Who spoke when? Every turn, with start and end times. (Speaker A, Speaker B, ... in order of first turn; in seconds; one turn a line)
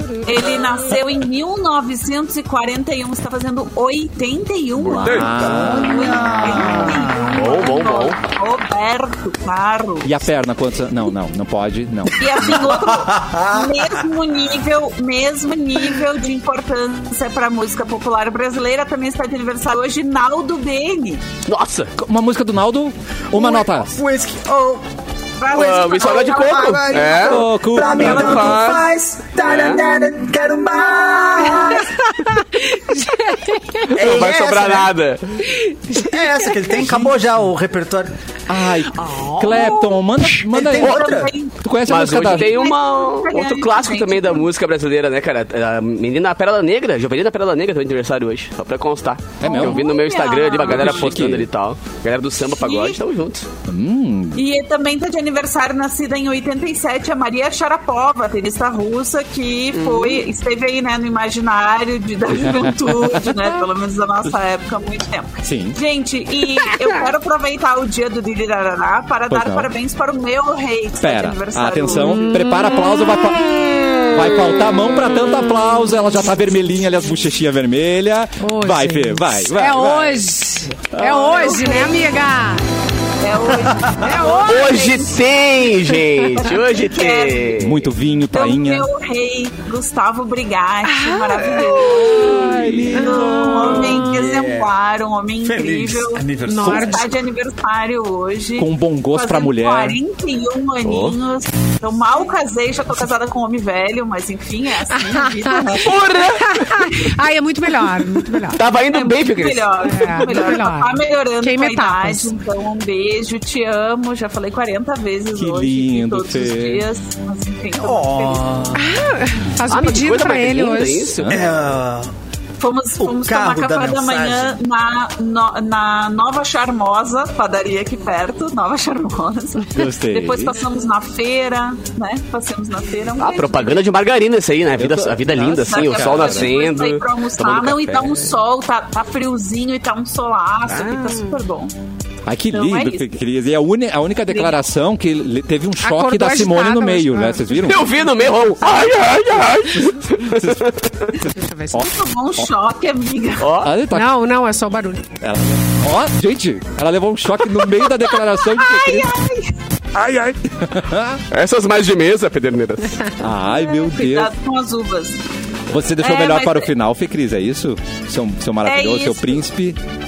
Speaker A: 0.2-10.1
Speaker B: 4.8-5.4
Speaker C: 4.9-7.1
Speaker D: 5.2-7.6
Speaker B: 7.3-8.2
Speaker C: 10.0-12.6
Speaker A: 12.2-21.2
Speaker D: 12.4-14.0
Speaker B: 21.5-21.9
Speaker C: 22.0-23.9
Speaker D: 23.3-24.8
Speaker A: 25.4-27.1
Speaker B: 25.5-27.5
Speaker D: 26.0-31.9
Speaker C: 27.2-28.8
Speaker A: 27.9-28.7
Speaker B: 28.0-28.8
Speaker B: 29.4-29.8
Speaker E: 32.1-33.9
Speaker B: 33.9-35.4
Speaker D: 33.9-34.9
Speaker E: 35.5-36.1
Speaker D: 36.0-38.1
Speaker C: 36.8-37.1
Speaker C: 38.5-42.6
Speaker A: 39.4-39.8
Speaker D: 40.5-41.3
Speaker A: 40.7-41.5
Speaker B: 41.9-53.5
Speaker A: 42.1-44.5
Speaker C: 49.4-49.8
Speaker A: 49.4-51.2
Speaker C: 50.6-51.5
Speaker A: 52.5-53.0
Speaker C: 53.7-54.4
Speaker A: 54.4-72.4
Speaker B: 59.8-60.2
Speaker C: 62.3-63.4
Speaker C: 65.4-65.8
Speaker C: 69.3-69.7
Speaker C: 71.0-80.2
Speaker E: 72.2-72.6
Speaker E: 78.4-82.6
Speaker C: 80.9-81.7
Speaker A: 83.2-85.2
Speaker E: 84.0-84.9
Speaker B: 84.5-87.8
Speaker A: 86.4-87.6
Speaker C: 87.6-88.9
Speaker A: 88.3-106.2
Speaker E: 90.8-93.8
Speaker C: 92.1-94.0
Speaker D: 93.4-94.7
Speaker D: 95.4-97.1
Speaker E: 96.5-97.1
Speaker C: 98.6-100.0
Speaker B: 100.8-101.2
Speaker E: 104.9-108.6
Speaker B: 105.8-106.7
Speaker B: 108.5-110.4
Speaker A: 108.9-118.5
Speaker E: 109.8-112.3
Speaker C: 115.3-116.8
Speaker D: 117.8-118.8
Speaker E: 118.8-121.2
Speaker B: 119.7-121.4
Speaker C: 121.2-121.5
Speaker D: 121.3-122.1
Speaker A: 122.6-133.8
Speaker D: 123.0-124.6
Speaker C: 129.7-130.5
Speaker B: 133.2-138.3
Speaker C: 134.8-136.5
Speaker A: 135.4-141.7
Speaker B: 140.7-141.2
Speaker C: 142.3-147.9
Speaker A: 142.5-143.1
Speaker E: 145.8-147.5
Speaker B: 147.7-150.9
Speaker C: 150.3-150.9
Speaker E: 151.3-151.9
Speaker C: 151.7-152.4
Speaker A: 151.8-153.6
Speaker B: 153.4-153.7
Speaker C: 153.6-154.1
Speaker E: 153.9-155.1
Speaker C: 155.2-159.2
Speaker A: 158.5-159.5
Speaker C: 159.9-161.2
Speaker B: 161.3-163.1
Speaker C: 163.2-164.3
Speaker A: 163.5-165.2
Speaker C: 165.7-169.8
Speaker A: 166.0-166.7
Speaker A: 168.6-169.4